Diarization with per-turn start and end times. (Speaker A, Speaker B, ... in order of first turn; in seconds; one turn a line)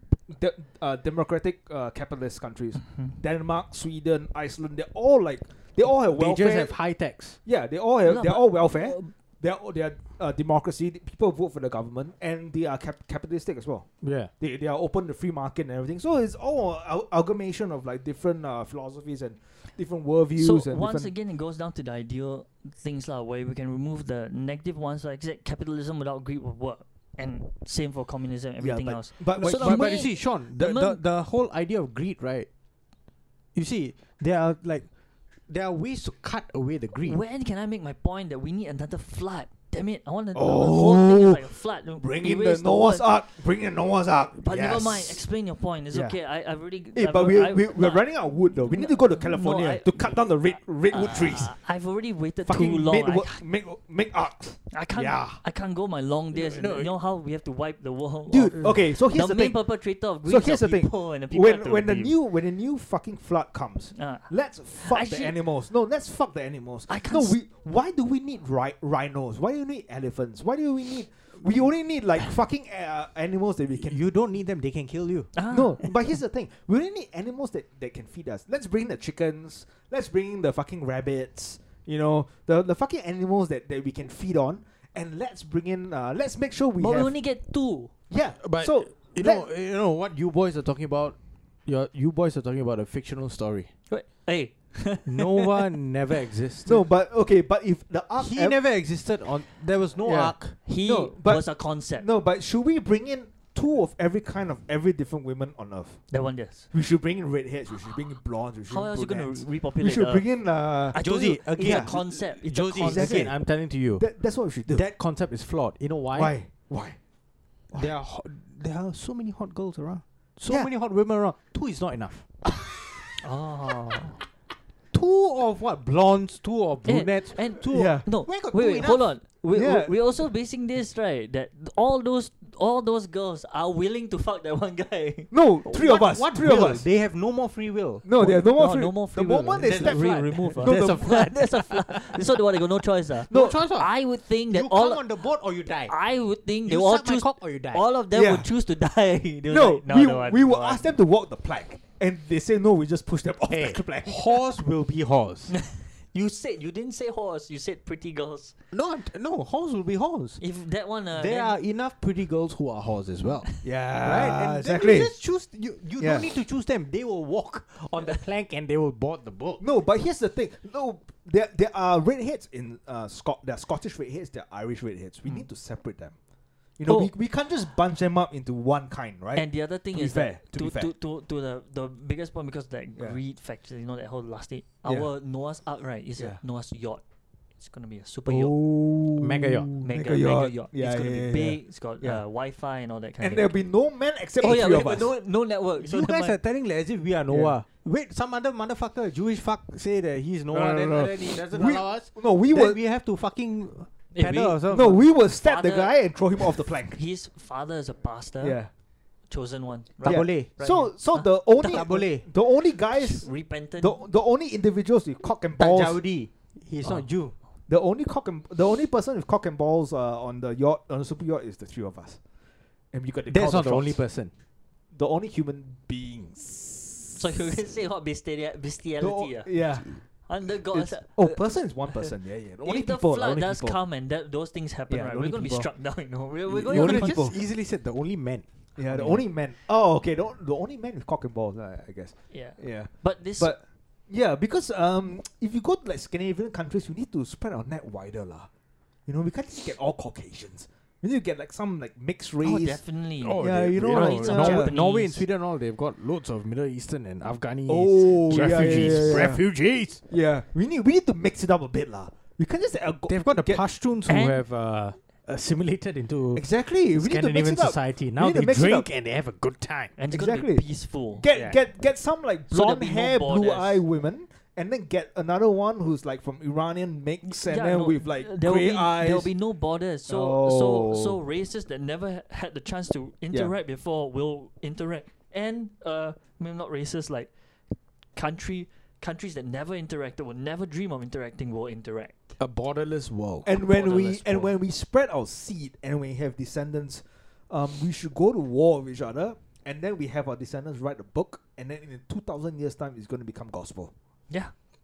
Speaker A: 0.3-21.1
Speaker B: 6.1-7.4
Speaker C: 8.1-9.1
Speaker B: 14.0-14.3
Speaker C: 20.4-31.0
Speaker A: 28.6-30.1
Speaker B: 29.4-32.5
Speaker B: 33.5-34.9
Speaker B: 35.5-37.2
Speaker C: 37.0-43.1
Speaker A: 40.4-45.2
Speaker C: 44.4-50.0
Speaker A: 45.9-46.2
Speaker A: 46.8-51.6
Speaker C: 50.9-53.4
Speaker A: 52.4-55.3
Speaker C: 54.7-62.1
Speaker B: 55.0-55.4
Speaker B: 56.3-56.9
Speaker A: 58.3-74.0
Speaker C: 64.0-65.4
Speaker C: 66.9-67.3
Speaker B: 73.8-75.3
Speaker C: 75.4-75.9
Speaker A: 75.5-87.2
Speaker C: 86.8-87.9
Speaker A: 88.1-89.5
Speaker B: 88.4-93.7
Speaker C: 93.9-95.7
Speaker B: 95.0-96.8
Speaker A: 96.7-98.6
Speaker B: 98.2-100.6
Speaker A: 100.0-112.0
Speaker C: 100.7-102.1
Speaker C: 106.1-106.7
Speaker C: 108.7-113.3
Speaker B: 111.0-114.1
Speaker A: 112.7-114.9
Speaker B: 114.7-116.3
Speaker A: 116.1-117.0
Speaker B: 117.7-122.3
Speaker C: 123.2-124.2
Speaker B: 124.9-129.2
Speaker C: 126.9-135.3
Speaker A: 127.7-128.1
Speaker A: 129.5-129.9
Speaker A: 135.3-136.9
Speaker B: 135.7-138.1
Speaker A: 138.0-141.3
Speaker C: 138.2-145.1
Speaker B: 139.6-142.3
Speaker A: 143.3-143.6
Speaker B: 143.3-145.9
Speaker C: 145.9-150.8
Speaker B: 146.7-147.8
Speaker A: 148.1-148.5
Speaker A: 149.5-154.4
Speaker B: 153.5-155.6
Speaker C: 155.5-158.6
Speaker B: 158.7-160.4
Speaker C: 160.4-161.6
Speaker B: 161.1-169.6
Speaker A: 163.6-165.2
Speaker A: 166.0-166.3
Speaker A: 169.6-176.1
Speaker A: 176.8-180.9
Speaker B: 176.9-177.1
Speaker C: 179.3-187.0
Speaker A: 184.8-185.1
Speaker C: 187.6-188.5
Speaker A: 188.3-192.2
Speaker B: 189.2-189.7
Speaker C: 189.8-193.6
Speaker A: 193.2-195.1
Speaker C: 194.4-196.4
Speaker B: 195.8-205.0
Speaker A: 197.3-197.6
Speaker A: 200.5-202.8
Speaker C: 204.1-208.6
Speaker A: 204.6-207.0
Speaker A: 208.4-208.7
Speaker C: 209.3-212.0
Speaker B: 210.0-210.5
Speaker A: 210.0-216.0
Speaker B: 211.6-212.2
Speaker C: 212.9-214.0
Speaker B: 215.6-217.3
Speaker A: 217.7-222.2
Speaker A: 222.9-224.0
Speaker B: 223.3-224.3
Speaker A: 224.9-227.5
Speaker C: 227.2-232.1
Speaker A: 229.0-233.8
Speaker C: 232.6-237.2
Speaker A: 234.9-235.7
Speaker B: 236.5-238.5
Speaker A: 236.6-237.4
Speaker A: 238.8-248.5
Speaker C: 238.9-239.2
Speaker C: 242.3-243.6
Speaker A: 249.1-252.8
Speaker C: 252.4-255.2
Speaker B: 253.2-260.0
Speaker A: 253.4-254.7
Speaker A: 257.7-263.6
Speaker C: 258.7-259.3
Speaker B: 263.1-269.9
Speaker C: 264.1-264.4
Speaker A: 266.4-268.9
Speaker C: 270.0-271.2
Speaker A: 270.1-279.3
Speaker B: 271.3-271.6
Speaker C: 272.5-273.8
Speaker C: 277.3-287.3
Speaker A: 280.1-281.2
Speaker C: 288.1-292.2
Speaker B: 292.4-294.5
Speaker A: 293.4-303.9
Speaker C: 293.7-294.1